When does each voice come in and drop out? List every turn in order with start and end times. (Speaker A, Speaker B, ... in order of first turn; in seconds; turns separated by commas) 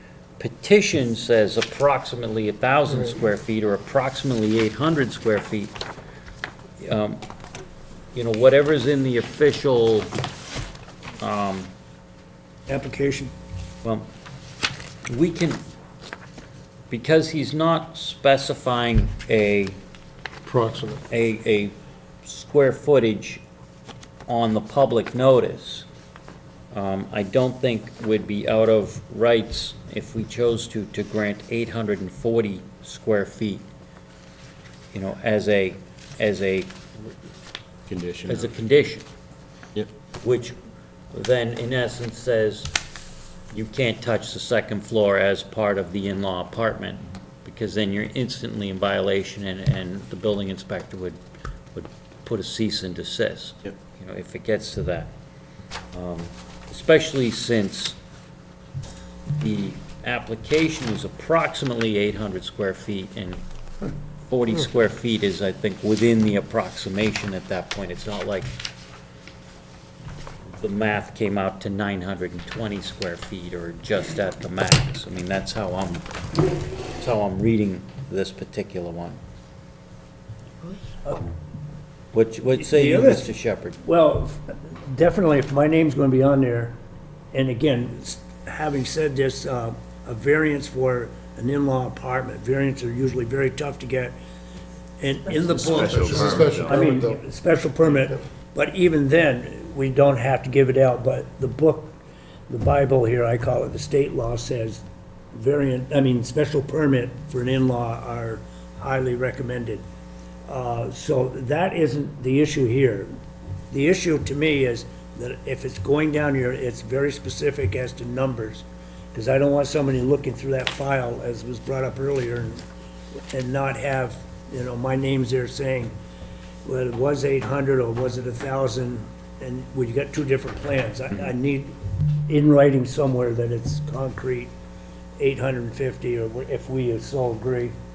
Speaker A: 0.4-5.7, Speaker A: 6.8-7.2, Speaker A: 8.1-10.1, Speaker A: 11.2-11.7, Speaker B: 12.7-13.3, Speaker A: 15.1-15.6, Speaker A: 16.9-19.8, Speaker C: 20.4-21.0, Speaker A: 21.1-23.4, Speaker A: 24.3-25.9, Speaker A: 26.7-33.6, Speaker A: 34.9-37.1, Speaker D: 37.9-38.5, Speaker A: 38.3-39.0, Speaker A: 40.2-40.5, Speaker A: 41.1-42.7, Speaker A: 43.5-51.2, Speaker A: 51.7-55.1, Speaker A: 55.9-58.0, Speaker A: 59.4-63.4, Speaker A: 64.3-68.5, Speaker A: 70.5-76.1, Speaker A: 77.0-79.2, Speaker A: 82.1-83.8, Speaker B: 82.5-83.3, Speaker B: 83.8-86.8, Speaker B: 87.3-94.2, Speaker B: 95.0-102.0, Speaker D: 95.4-96.9, Speaker C: 95.8-97.2, Speaker B: 102.5-104.8, Speaker B: 105.3-109.8, Speaker B: 110.5-113.1, Speaker B: 113.7-122.6, Speaker B: 123.3-125.9, Speaker B: 126.7-131.7, Speaker B: 132.3-134.5, Speaker B: 135.2-137.7